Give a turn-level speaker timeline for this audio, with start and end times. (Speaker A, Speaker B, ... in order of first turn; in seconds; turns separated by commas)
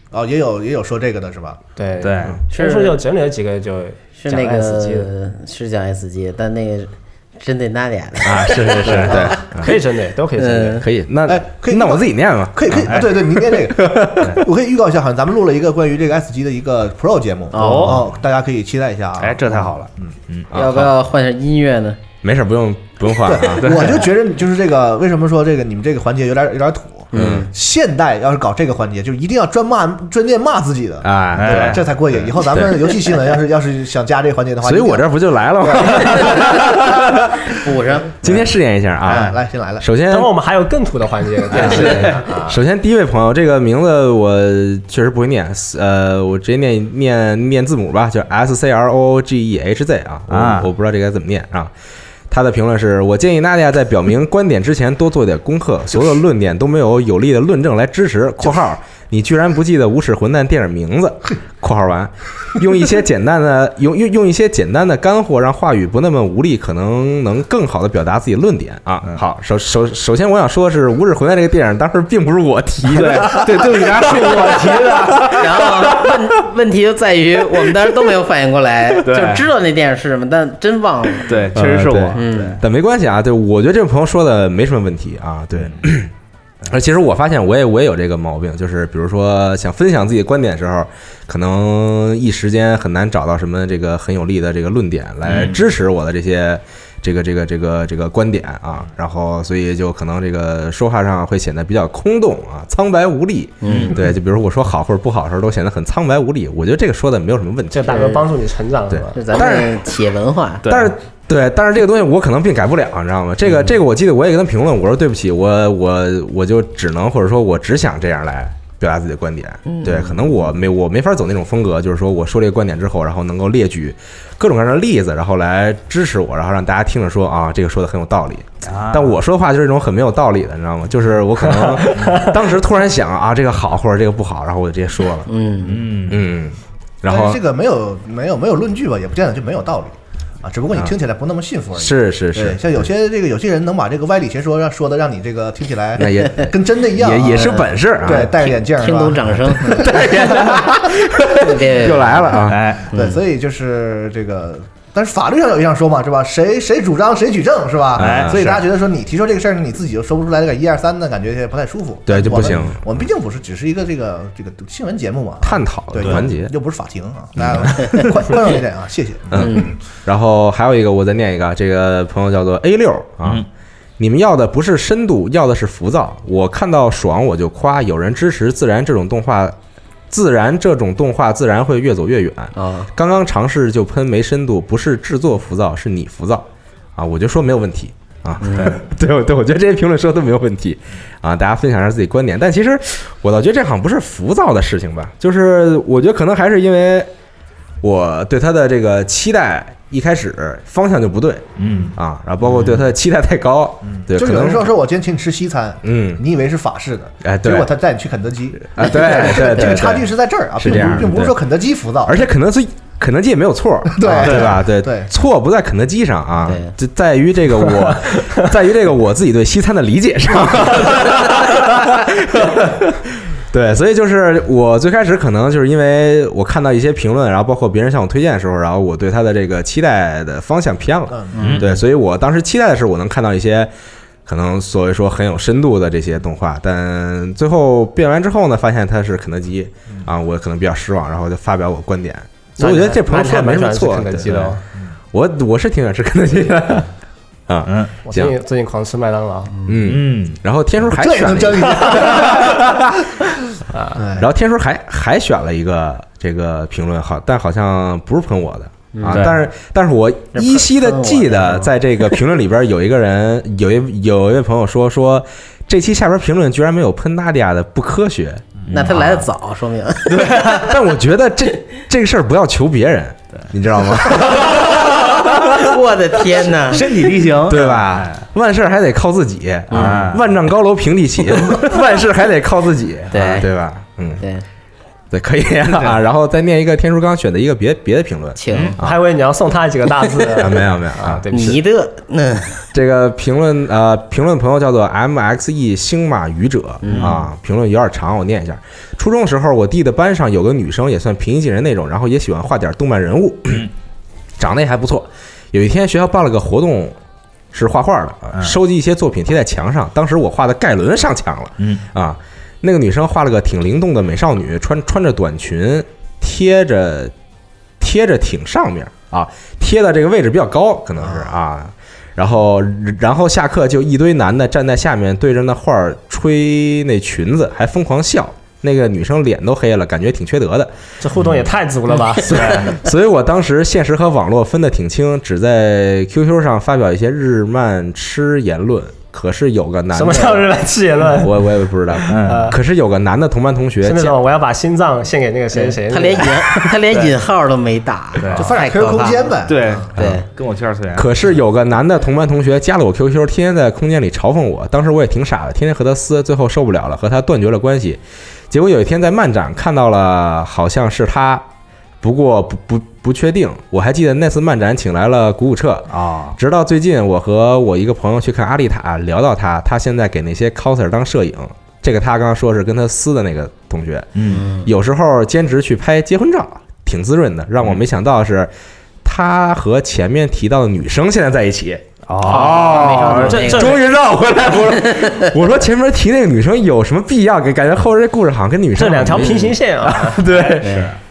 Speaker A: 0.1-1.6, Speaker B: 1.8-5.1, Speaker C: 2.0-2.4, Speaker D: 2.5-3.0, Speaker D: 4.2-9.8, Speaker E: 8.2-9.7, Speaker C: 8.5-9.3, Speaker A: 9.1-9.3, Speaker B: 9.6-10.8, Speaker D: 10.4-10.9, Speaker E: 10.8-14.4, Speaker A: 11.3-20.1, Speaker C: 12.9-13.1, Speaker C: 17.5-18.1, Speaker C: 19.2-20.5, Speaker E: 20.5-20.9, Speaker D: 20.5-22.0, Speaker E: 22.2-23.9, Speaker A: 23.2-36.8, Speaker C: 23.6-24.1, Speaker D: 27.1-27.5, Speaker E: 27.1-27.5, Speaker E: 31.0-31.8, Speaker C: 31.4-31.9, Speaker E: 32.5-32.7, Speaker E: 34.6-37.5, Speaker D: 37.5-38.5, Speaker E: 38.2-40.3, Speaker A: 39.0-39.9, Speaker C: 39.1-39.4, Speaker B: 40.1-42.6, Speaker C: 41.5-42.2, Speaker E: 41.6-51.7, Speaker C: 50.3-50.7, Speaker E: 52.3-74.4, Speaker C: 72.9-76.0, Speaker E: 75.1-76.2, Speaker D: 75.3-81.5, Speaker C: 79.0-79.5, Speaker C: 81.3-82.6, Speaker E: 81.5-86.1, Speaker D: 82.1-82.6, Speaker C: 85.6-85.8, Speaker E: 86.7-108.2, Speaker C: 95.3-95.7, Speaker D: 103.6-104.1, Speaker C: 103.6-104.0, Speaker B: 107.7-109.3, Speaker D: 107.9-108.2, Speaker E: 108.9-109.8, Speaker D: 109.2-110.7, Speaker C: 110.6-111.0, Speaker E: 110.7-135.3, Speaker D: 119.7-120.3, Speaker C: 128.7-129.2, Speaker B: 131.8-132.3, Speaker D: 135.3-135.9, Speaker C: 135.6-136.2, Speaker E: 136.1-137.4, Speaker A: 137.1-150.7, Speaker E: 141.8-142.8, Speaker E: 146.0-148.5, Speaker D: 148.5-150.0, Speaker E: 149.6-152.8, Speaker D: 151.3-153.2, Speaker C: 152.4-152.9, Speaker A: 152.9-169.7, Speaker E: 158.0-158.5, Speaker C: 158.0-158.7, Speaker E: 162.1-162.8, Speaker E: 165.4-166.5, Speaker E: 167.4-168.0, Speaker E: 169.3-173.5, Speaker D: 169.4-169.8, Speaker E: 174.0-179.6, Speaker E: 180.1-197.1, Speaker D: 182.6-182.9, Speaker D: 188.4-188.8, Speaker E: 197.8-204.7, Speaker C: 201.6-202.0, Speaker D: 202.4-202.8, Speaker A: 203.8-212.2, Speaker E: 205.8-206.2, Speaker E: 207.2-207.7, Speaker E: 208.7-211.3, Speaker D: 209.4-209.7, Speaker E: 212.1-233.7, Speaker A: 213.9-215.1, Speaker C: 214.2-214.6, Speaker D: 216.4-216.7, Speaker A: 231.1-231.4, Speaker D: 231.4-231.8, Speaker C: 231.4-231.7, Speaker E: 234.3-244.6, Speaker B: 242.6-244.6, Speaker C: 244.3-244.9, Speaker E: 245.1-246.9, Speaker E: 247.5-248.3, Speaker C: 247.7-247.9, Speaker B: 248.1-249.6, Speaker E: 249.7-253.0, Speaker C: 249.8-250.4, Speaker A: 250.9-253.3, Speaker B: 253.7-254.0, Speaker A: 253.9-254.3, Speaker E: 254.2-269.2, Speaker D: 258.9-259.4, Speaker C: 259.1-259.4, Speaker D: 260.4-262.1, Speaker C: 268.6-269.2, Speaker D: 268.7-270.7, Speaker C: 270.1-270.7, Speaker E: 270.5-275.8, Speaker D: 274.2-277.1, Speaker C: 276.7-278.3, Speaker E: 277.5-284.2, Speaker D: 279.7-280.1, Speaker C: 279.7-280.2, Speaker D: 283.1-283.5, Speaker D: 284.2-284.4, Speaker E: 285.1-289.0, Speaker C: 285.7-286.0, Speaker D: 288.4-288.8, Speaker C: 288.5-288.8, Speaker B: 288.8-291.6, Speaker E: 290.4-291.2, Speaker D: 291.3-292.6, Speaker E: 292.7-303.7, Speaker D: 296.8-297.2, Speaker C: 296.9-297.2, Speaker E: 304.4-307.0, Speaker E: 307.5-317.1, Speaker C: 311.6-311.9, Speaker E: 317.8-330.7, Speaker A: 321.0-321.3, Speaker B: 331.0-332.7, Speaker E: 332.2-340.5, Speaker B: 339.9-342.6, Speaker E: 341.0-344.2, Speaker C: 342.1-342.5, Speaker B: 343.8-346.7, Speaker D: 345.5-349.4, Speaker C: 348.2-348.5, Speaker A: 348.3-349.9, Speaker C: 349.5-351.1, Speaker D: 349.9-350.3, Speaker E: 350.0-350.2, Speaker E: 350.9-361.5, Speaker E: 362.0-378.5, Speaker C: 365.9-366.4, Speaker C: 374.1-374.5, Speaker D: 374.3-374.7, Speaker E: 379.0-390.9, Speaker C: 382.1-383.3, Speaker B: 382.3-383.8, Speaker D: 382.4-383.9, Speaker D: 384.6-385.3, Speaker B: 388.8-390.6, Speaker C: 390.2-391.0, Speaker D: 390.6-390.9